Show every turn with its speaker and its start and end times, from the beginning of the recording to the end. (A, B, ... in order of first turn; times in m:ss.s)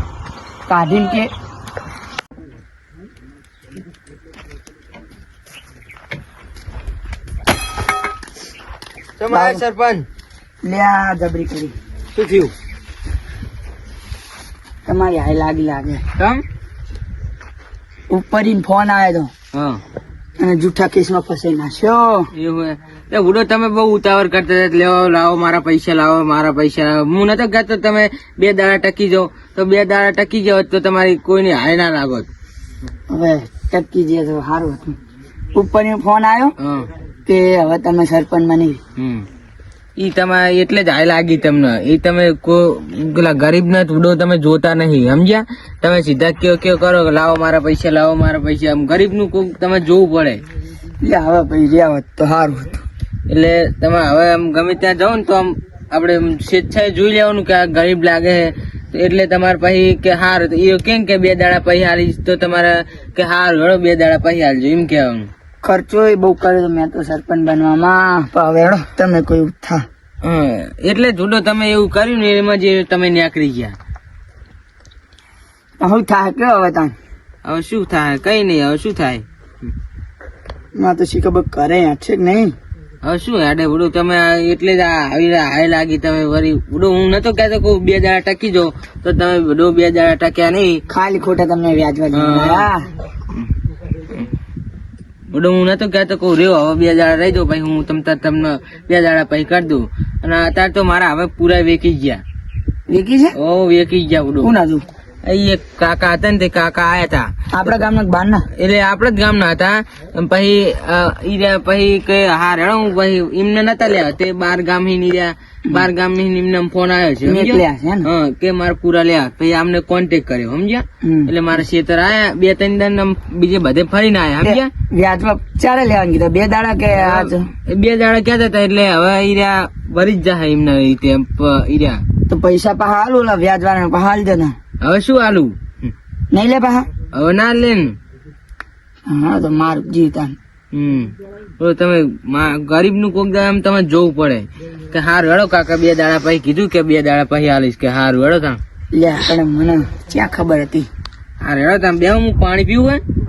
0:00.7-0:01.3 A
0:09.2-0:10.1 B
0:09.3-0:09.6 A
0:10.6-0:11.8 A
0:12.2-0:12.5 B
0:14.9-0:16.0 A
0:16.2-0:16.4 B
0:18.1-0:19.3 A
0:19.5-0:19.8 B
0:20.4-0:22.3 A
0:22.3-0:32.3 B
0:33.1-0:35.0 A
0:35.5-0:36.5 A
0:36.6-0:36.9 B
0:37.3-0:38.8 A
0:39.0-0:39.3 B
0:40.0-0:50.4 B
0:51.0-0:52.8 A
0:53.3-1:05.3 B
1:05.6-1:09.9 A
1:10.2-1:13.8 B
1:15.8-1:16.9 A
1:17.4-1:19.7 B
1:20.8-1:22.6 A
1:23.0-1:30.8 B
1:30.9-1:32.9 A
1:32.1-1:32.7 B
1:35.3-1:42.2 B
1:42.9-1:43.4 A
1:43.3-1:44.5 B
1:44.4-1:44.8 A
1:45.2-1:47.3 B
1:47.5-1:48.5 A
1:48.6-2:04.7 B
1:57.3-1:58.1 A
2:01.0-2:01.3 A
2:04.4-2:07.5 A
2:06.9-2:12.0 B
2:12.3-2:14.6 A
2:14.8-2:15.9 B
2:16.3-2:16.9 A
2:17.1-2:18.0 B
2:19.1-2:20.4 A
2:20.7-2:28.6 B
2:28.9-2:30.9 A
2:31.4-2:33.0 B